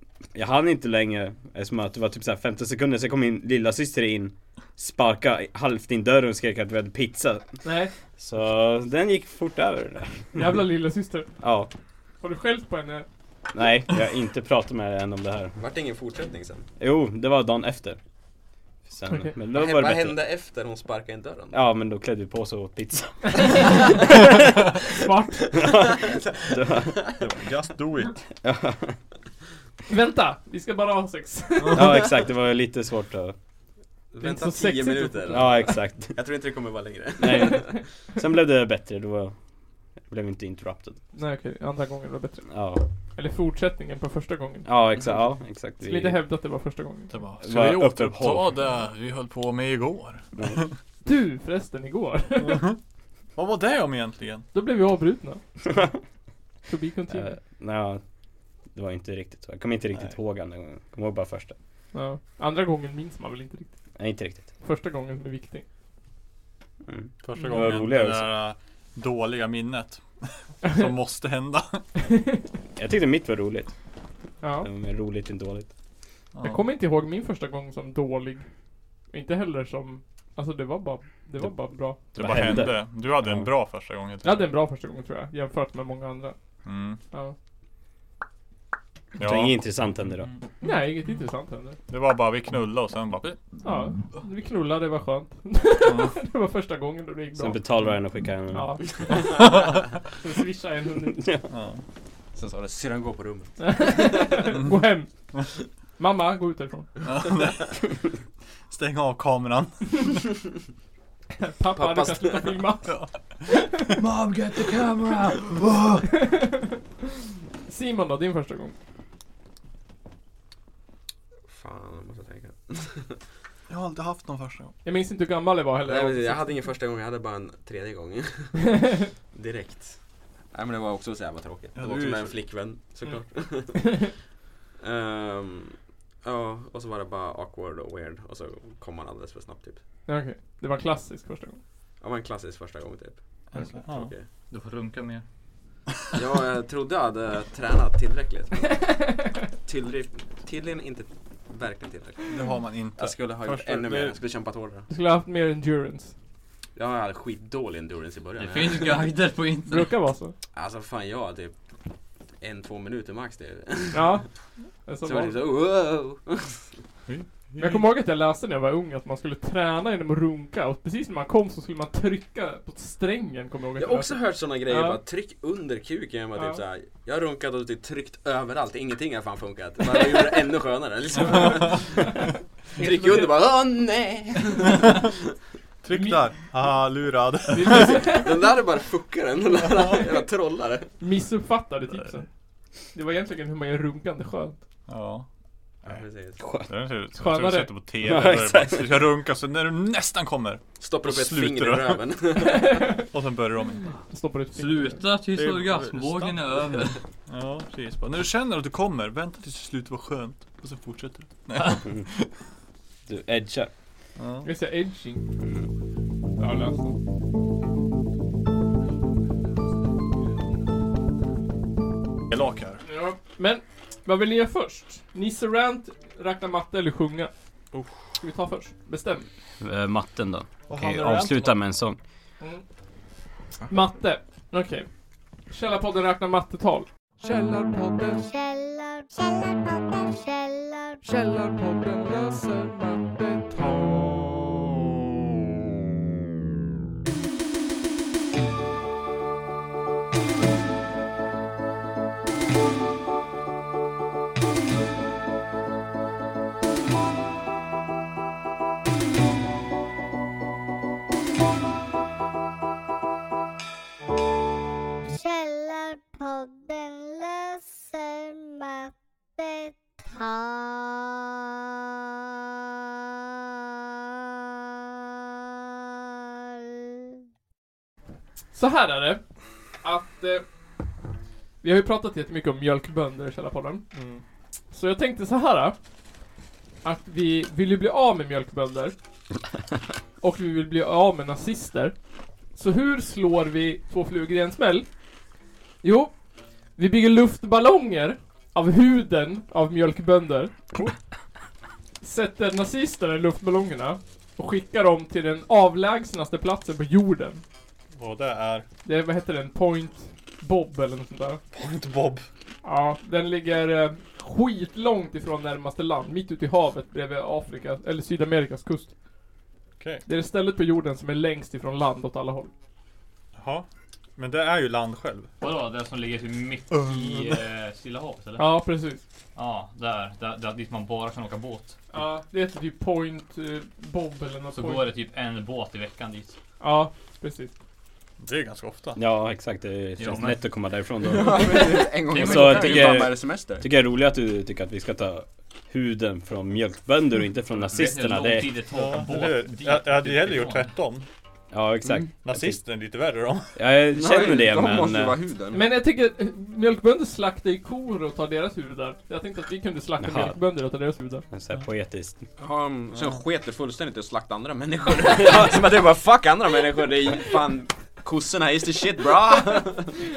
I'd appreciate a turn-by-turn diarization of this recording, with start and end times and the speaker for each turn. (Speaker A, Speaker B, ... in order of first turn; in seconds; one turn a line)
Speaker A: 0.3-7.6
Speaker B: 7.6-7.9
Speaker A: 8.2-10.6
Speaker B: 10.3-11.3
Speaker A: 11.4-11.7
Speaker B: 12.2-13.1
Speaker A: 13.5-15.6
Speaker C: 15.6-16.7
Speaker A: 16.8-18.0
Speaker A: 18.9-20.2
Speaker B: 19.1-19.3
Speaker C: 19.5-21.6
Speaker A: 21.5-24.0
Speaker B: 23.3-23.9
Speaker B: 24.9-25.6
Speaker C: 25.5-27.3
Speaker A: 25.5-27.0
Speaker D: 27.2-28.2
Speaker A: 28.4-29.0
Speaker B: 29.9-32.0
Speaker D: 31.6-32.0
Speaker A: 31.7-33.4
Speaker C: 34.1-37.8
Speaker B: 34.2-35.5
Speaker A: 35.3-36.2
Speaker A: 37.2-39.4
Speaker A: 40.1-41.0
Speaker B: 41.1-42.5
Speaker A: 42.5-42.8
Speaker B: 43.2-44.7
Speaker A: 44.6-46.2
Speaker B: 45.8-47.2
Speaker D: 47.1-50.7
Speaker A: 47.4-48.5
Speaker A: 50.4-50.6
Speaker B: 51.0-52.7
Speaker D: 52.4-52.8
Speaker D: 53.4-54.5
Speaker B: 54.5-55.4
Speaker B: 56.7-57.4
Speaker A: 57.1-58.0
Speaker A: 58.7-61.5
Speaker B: 61.9-63.7
Speaker A: 64.0-64.5
Speaker B: 64.6-65.6
Speaker A: 66.9-68.3
Speaker D: 67.2-71.8
Speaker B: 67.3-67.7
Speaker B: 72.1-72.4
Speaker A: 72.8-73.7
Speaker B: 74.4-74.7
Speaker A: 74.6-75.7
Speaker D: 76.3-76.7
Speaker B: 76.4-78.5
Speaker B: 79.1-82.0
Speaker A: 81.4-83.5
Speaker D: 82.2-84.5
Speaker B: 84.2-86.4
Speaker D: 86.7-87.0
Speaker D: 89.2-89.6
Speaker A: 89.2-90.3
Speaker B: 90.6-91.8
Speaker D: 91.9-93.4
Speaker B: 93.6-97.6
Speaker D: 95.8-96.2
Speaker A: 97.4-98.9
Speaker B: 98.5-99.3
Speaker D: 99.2-99.9
Speaker B: 100.2-101.3
Speaker A: 101.1-101.5
Speaker D: 101.5-101.8
Speaker C: 102.3-104.4
Speaker B: 103.6-105.1
Speaker B: 106.0-106.9
Speaker D: 107.0-107.9
Speaker D: 108.7-110.2
Speaker B: 111.4-112.9
Speaker C: 111.8-112.6
Speaker D: 112.9-113.1
Speaker B: 113.5-113.9
Speaker E: 114.0-116.0
Speaker D: 115.5-116.0
Speaker B: 116.1-116.7
Speaker B: 117.7-118.7
Speaker C: 121.5-123.2
Speaker D: 123.7-124.7
Speaker B: 124.8-126.5
Speaker C: 125.8-128.8
Speaker C: 129.3-130.0
Speaker C: 130.5-134.1
Speaker D: 131.8-132.4
Speaker C: 134.8-139.8
Speaker B: 140.1-141.6
Speaker C: 142.0-144.2
Speaker D: 143.5-144.1
Speaker E: 144.5-145.2
Speaker C: 146.2-149.0
Speaker C: 149.6-152.3
Speaker D: 152.3-154.2
Speaker C: 153.0-154.9
Speaker B: 154.9-156.1
Speaker C: 156.8-159.1
Speaker E: 158.4-159.9
Speaker B: 159.7-160.3
Speaker C: 160.5-161.5
Speaker C: 162.4-164.2
Speaker B: 163.9-164.3
Speaker B: 164.9-165.3
Speaker C: 165.0-166.6
Speaker D: 167.1-167.8
Speaker B: 167.6-175.0
Speaker C: 173.8-182.2
Speaker B: 176.4-176.6
Speaker C: 182.7-185.1
Speaker B: 182.8-183.3
Speaker D: 185.8-188.1
Speaker B: 185.9-186.3
Speaker B: 187.5-188.3
Speaker C: 187.8-190.9
Speaker B: 191.0-192.3
Speaker B: 192.9-194.6
Speaker D: 194.9-195.3
Speaker C: 195.8-196.4
Speaker A: 196.4-196.7
Speaker D: 196.7-202.0
Speaker B: 197.2-197.7
Speaker A: 198.0-199.0
Speaker C: 200.8-202.9
Speaker B: 202.5-203.0
Speaker D: 203.1-204.0
Speaker B: 204.1-205.0
Speaker E: 204.6-207.0
Speaker D: 205.3-206.5
Speaker D: 207.3-212.3
Speaker A: 213.1-213.7
Speaker D: 214.2-214.5
Speaker B: 214.4-215.2
Speaker B: 216.4-217.0
Speaker D: 222.3-222.8
Speaker B: 222.8-227.3
Speaker D: 227.7-228.0
Speaker B: 228.2-229.3
Speaker A: 229.6-232.0
Speaker D: 230.7-231.6
Speaker B: 233.7-234.9
Speaker B: 235.5-236.9
Speaker F: 238.3-241.0
Speaker F: 265.2-271.1
Speaker B: 278.5-279.2
Speaker B: 279.8-280.4
Speaker B: 281.6-283.9
Speaker D: 283.9-284.2
Speaker B: 284.7-285.8
Speaker B: 286.8-288.9
Speaker B: 290.2-291.9
Speaker B: 292.6-294.9
Speaker B: 295.8-296.1
Speaker B: 296.8-300.6
Speaker B: 302.0-307.4
Speaker D: 307.9-308.7
Speaker B: 308.9-311.4
Speaker D: 311.5-312.3
Speaker B: 312.6-318.9
Speaker D: 319.8-320.0
Speaker B: 320.1-322.5
Speaker D: 323.4-323.7
Speaker D: 324.2-325.3
Speaker E: 325.4-328.5
Speaker D: 326.9-327.2
Speaker B: 328.4-329.0
Speaker E: 329.4-331.8
Speaker B: 331.9-334.9
Speaker E: 334.5-336.4
Speaker B: 336.6-337.5
Speaker D: 338.2-339.0
Speaker A: 339.0-348.5
Speaker E: 340.0-340.4
Speaker C: 341.0-343.7
Speaker E: 342.1-343.1
Speaker E: 347.7-350.7
Speaker D: 348.7-351.1
Speaker A: 351.5-352.6
Speaker C: 351.9-352.1
Speaker D: 352.2-353.5
Speaker A: 353.6-355.2
Speaker C: 353.9-355.6
Speaker B: 355.5-361.2
Speaker A: 360.0-360.4
Speaker A: 361.3-362.2
Speaker C: 362.4-370.0